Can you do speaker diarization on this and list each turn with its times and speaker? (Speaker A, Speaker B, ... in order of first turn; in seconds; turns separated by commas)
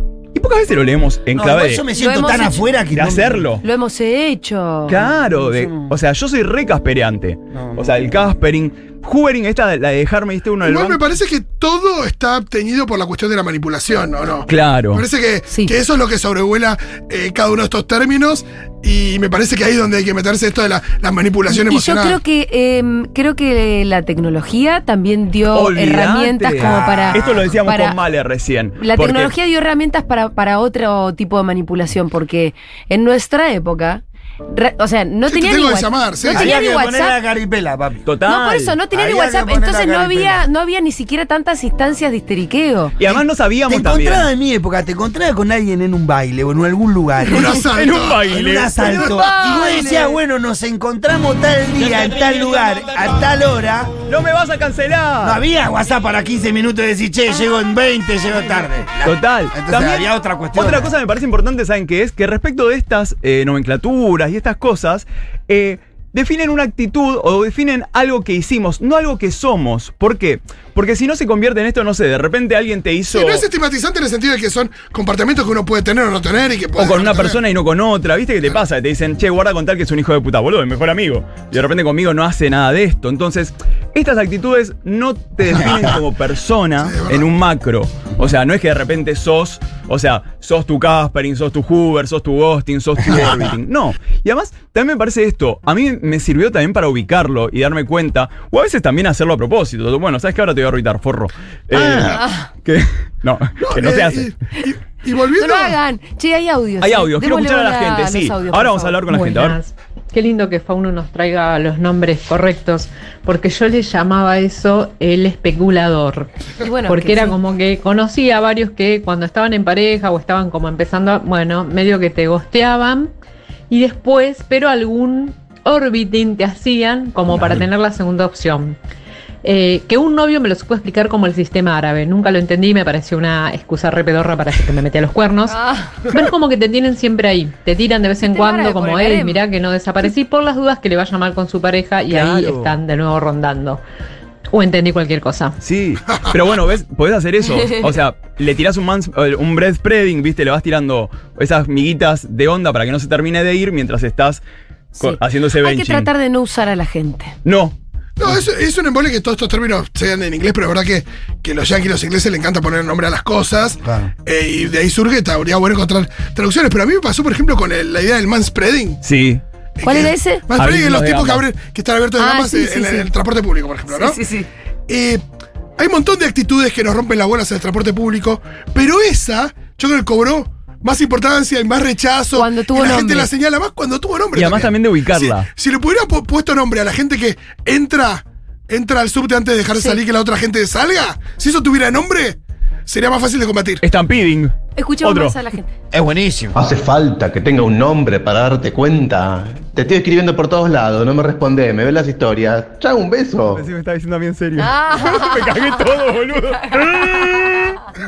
Speaker A: 0.3-1.9, Speaker B: 1.3-3.5, Speaker C: 1.9-2.7, Speaker A: 2.9-3.6, Speaker C: 3.6-5.0, Speaker A: 4.9-11.0, Speaker B: 5.0-5.7, Speaker D: 10.6-22.2, Speaker A: 14.5-15.1, Speaker C: 15.5-15.7, Speaker C: 21.5-28.0, Speaker A: 25.5-29.3, Speaker B: 26.6-27.4, Speaker C: 28.8-37.2, Speaker D: 35.3-36.5, Speaker B: 36.3-38.0, Speaker A: 38.0-38.8, Speaker C: 38.3-43.0, Speaker B: 38.9-40.5, Speaker A: 43.0-44.3, Speaker B: 43.0-47.6, Speaker D: 47.3-48.3, Speaker A: 47.6-49.1, Speaker B: 48.3-53.9, Speaker C: 48.9-50.2, Speaker A: 54.1-55.4, Speaker B: 55.2-60.9, Speaker A: 59.0-73.5, Speaker D: 73.1-77.4, Speaker A: 76.8-104.3, Speaker D: 86.8-87.3, Speaker C: 102.0-102.5, Speaker D: 103.6-105.8, Speaker C: 105.4-109.0, Speaker A: 106.8-109.6, Speaker E: 109.1-116.3, Speaker C: 116.6-117.4, Speaker E: 116.8-123.1, Speaker E: 123.7-128.8, Speaker E: 129.4-143.8, Speaker C: 135.5-136.0, Speaker C: 138.2-139.4, Speaker A: 142.1-142.7, Speaker E: 144.5-145.6, Speaker A: 145.6-154.4, Speaker A: 155.0-156.1, Speaker C: 155.0-157.3, Speaker A: 157.4-157.8, Speaker D: 158.2-169.0, Speaker B: 163.8-164.1, Speaker A: 169.0-169.4, Speaker D: 169.8-174.2, Speaker C: 169.8-170.4, Speaker A: 170.6-171.4, Speaker C: 172.2-173.1, Speaker C: 173.9-174.5, Speaker D: 174.9-175.2, Speaker D: 175.8-193.8, Speaker C: 182.3-183.3, Speaker A: 184.3-185.5, Speaker C: 189.7-190.0, Speaker A: 193.8-195.4, Speaker C: 194.8-195.7, Speaker B: 195.9-196.6, Speaker F: 196.6-203.6, Speaker A: 203.5-207.4, Speaker C: 204.6-205.8, Speaker C: 206.6-207.5